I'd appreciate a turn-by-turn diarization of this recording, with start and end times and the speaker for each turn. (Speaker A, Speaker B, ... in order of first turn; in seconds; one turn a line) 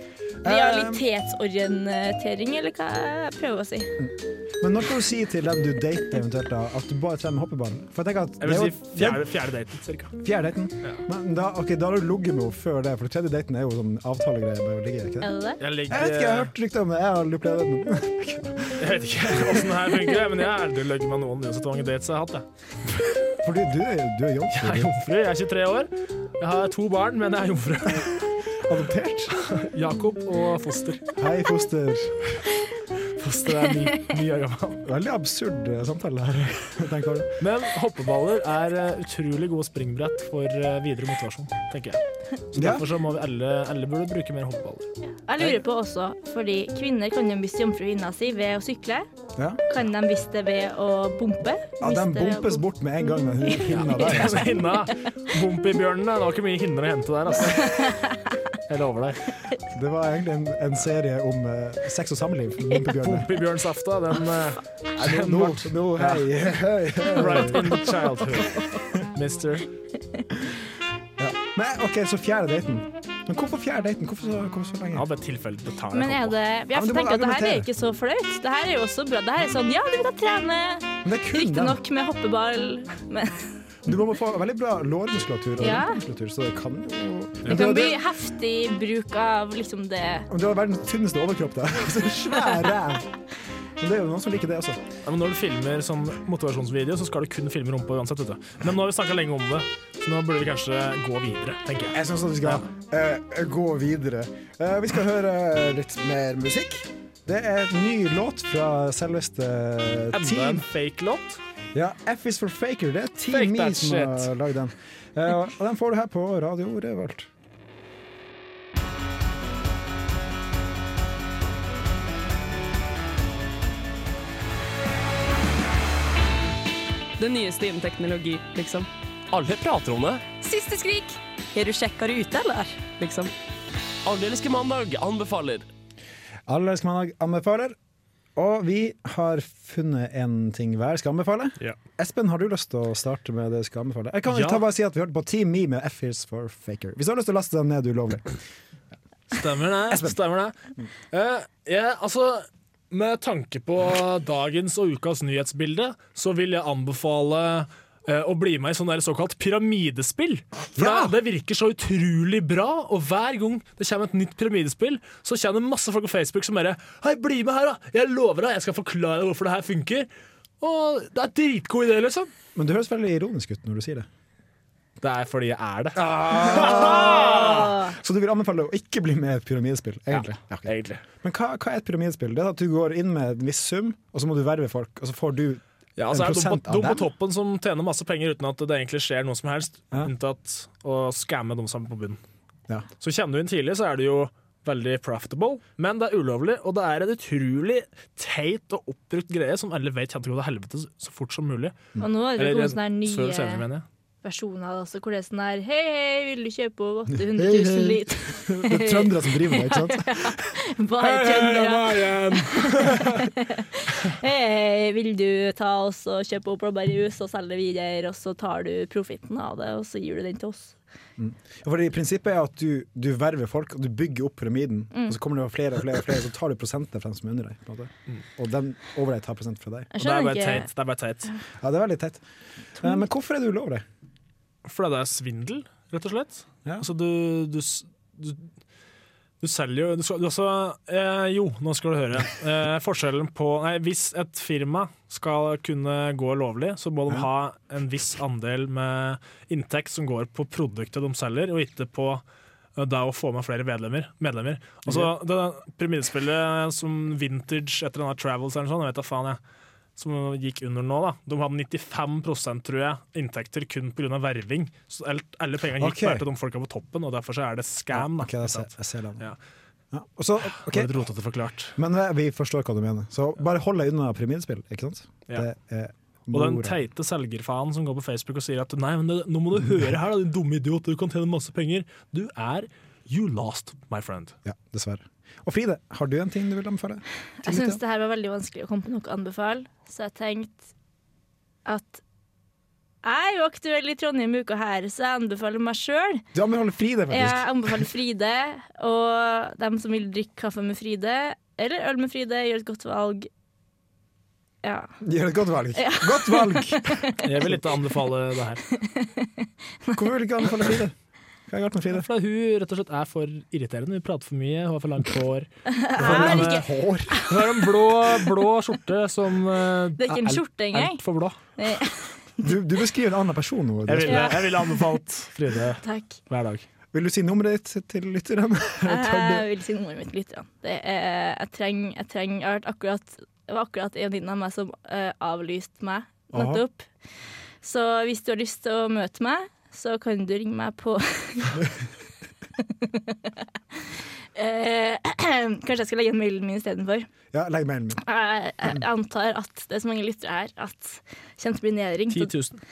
Speaker A: 0.4-1.1
Speaker B: 0.4-3.9
Speaker A: 4.0-9.2
Speaker C: 8.4-10.1
Speaker A: 10.2-15.3
Speaker B: 15.2-15.6
Speaker C: 15.6-16.5
Speaker A: 15.9-19.6
Speaker C: 18.8-22.4
Speaker A: 23.4-24.9
Speaker C: 24.5-28.2
Speaker A: 28.6-29.3
Speaker C: 29.4-31.1
Speaker A: 31.2-32.4
Speaker C: 33.2-34.8
Speaker A: 34.8-37.3
Speaker C: 37.4-45.6
Speaker A: 42.5-42.9
Speaker B: 45.3-49.0
Speaker A: 49.4-49.6
Speaker B: 49.7-52.6
Speaker A: 51.8-54.7
Speaker B: 53.4-54.2
Speaker C: 53.7-58.0
Speaker B: 57.5-58.3
Speaker C: 58.7-59.2
Speaker A: 59.7-63.3
Speaker C: 62.9-66.3
Speaker A: 65.0-67.9
Speaker C: 67.1-68.6
Speaker C: 69.1-69.7
Speaker A: 71.2-75.1
Speaker C: 74.9-76.3
Speaker B: 75.9-83.5
Speaker A: 76.7-77.7
Speaker A: 81.0-81.8
Speaker A: 83.8-88.0
Speaker B: 85.6-86.0
Speaker C: 87.4-87.8
Speaker B: 87.5-90.3
Speaker A: 90.3-93.1
Speaker A: 93.8-94.8
Speaker C: 95.0-102.6
Speaker A: 101.9-110.6
Speaker C: 110.1-111.4
Speaker A: 111.7-117.3
Speaker C: 113.3-114.3
Speaker D: 127.2-128.9
Speaker E: 129.3-130.2
Speaker D: 130.4-133.3
Speaker E: 134.0-135.7
Speaker A: 136.5-137.8
Speaker A: 138.3-148.3
Speaker C: 144.3-144.6
Speaker C: 149.3-150.5
Speaker A: 149.9-150.2
Speaker C: 151.1-170.1
Speaker A: 160.8-161.1
Speaker C: 170.6-172.3
Speaker A: 172.5-174.1
Speaker C: 175.0-177.8
Speaker A: 175.9-180.7
Speaker C: 180.1-181.0
Speaker A: 181.2-187.1
Speaker C: 186.0-192.2
Speaker C: 193.0-201.8
Speaker B: 202.0-203.6
Speaker C: 202.4-203.8
Speaker B: 204.2-220.8
Speaker A: 207.1-210.5
Speaker C: 211.0-213.3
Speaker A: 221.2-229.9
Speaker B: 229.9-230.7
Speaker C: 230.0-231.3
Speaker A: 231.6-232.2
Speaker A: 232.8-233.8
Speaker C: 234.6-238.5
Speaker C: 239.4-252.2
Speaker C: 252.8-259.4
Speaker A: 254.8-255.1
Speaker C: 260.0-269.4
Speaker A: 265.8-266.2
Speaker A: 267.9-269.3
Speaker A: 269.9-271.1
Speaker C: 270.5-271.8
Speaker A: 271.8-276.8
Speaker C: 276.3-284.3
Speaker A: 284.4-287.8
Speaker B: 287.4-290.7
Speaker B: 291.6-292.0
Speaker B: 293.0-296.2
Speaker A: 296.3-297.9
Speaker B: 297.1-303.3
Speaker B: 304.6-304.9
Speaker A: 305.0-307.6
Speaker B: 305.7-307.2
Speaker C: 307.2-308.6
Speaker B: 308.7-310.0
Speaker A: 309.9-310.9
Speaker A: 311.5-312.1
Speaker C: 311.9-316.6
Speaker B: 315.7-316.6
Speaker A: 316.0-317.2
Speaker C: 317.2-321.4
Speaker B: 320.0-321.0
Speaker B: 321.6-322.1
Speaker A: 322.4-324.5
Speaker C: 323.9-326.6
Speaker B: 324.0-324.5
Speaker B: 325.8-326.2
Speaker A: 326.9-329.5
Speaker B: 328.8-336.9
Speaker A: 336.3-336.6
Speaker B: 337.6-341.6
Speaker B: 342.6-343.3
Speaker B: 344.3-347.1
Speaker A: 347.3-348.0
Speaker B: 348.0-352.3
Speaker C: 352.1-352.6